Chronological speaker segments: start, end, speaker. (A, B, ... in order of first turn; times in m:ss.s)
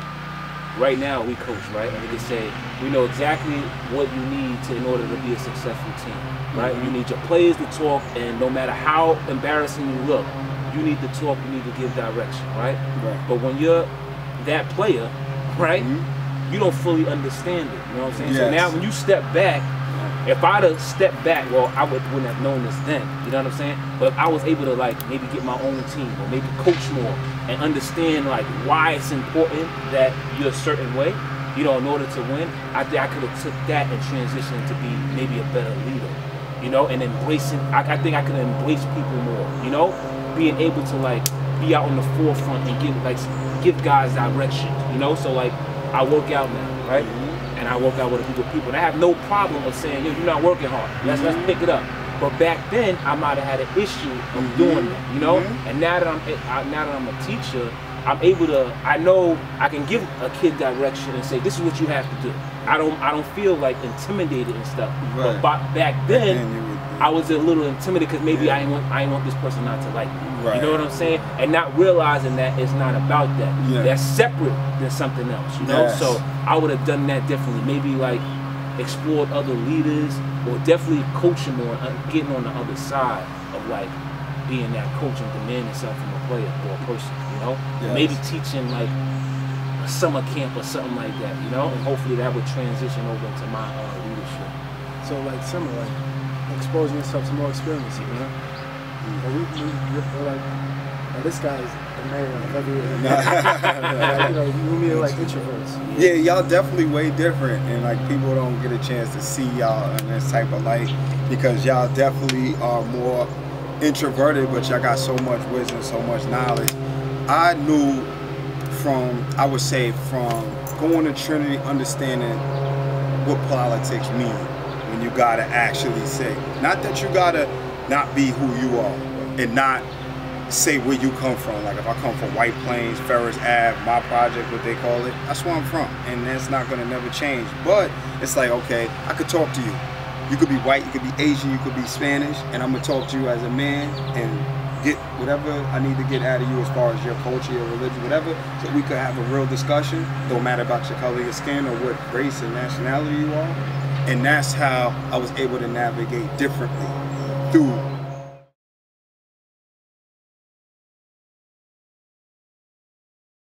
0:00.7-0:15.9 A
0:06.5-0:07.0 B
0:13.0-0:13.3 B
0:15.8-0:16.1 B
0:16.5-0:19.7 A
0:18.2-0:18.8 B
0:19.9-0:20.2 B
0:20.2-1:06.4 A
0:46.9-0:47.4 B
0:51.0-0:51.6 B
0:54.4-0:55.6 B
1:05.0-1:05.5 B
1:06.1-1:07.1 B
1:07.0-1:29.0 A
1:08.3-1:08.7 B
1:10.2-1:10.9 B
1:13.6-1:14.0 B
1:15.6-1:16.2 B
1:27.8-1:28.2 B
1:29.8-1:34.5 A
1:35.0-1:38.3 C
1:38.0-1:38.3 A
1:39.0-1:39.3 B
1:39.2-1:40.5 C
1:41.1-1:45.8 C
1:42.3-1:45.4 B
1:43.1-1:44.4 A
1:45.8-1:46.3 A
1:45.9-1:58.1 B
1:58.7-2:02.4 B
2:03.2-2:09.9 B
2:10.5-2:37.9 B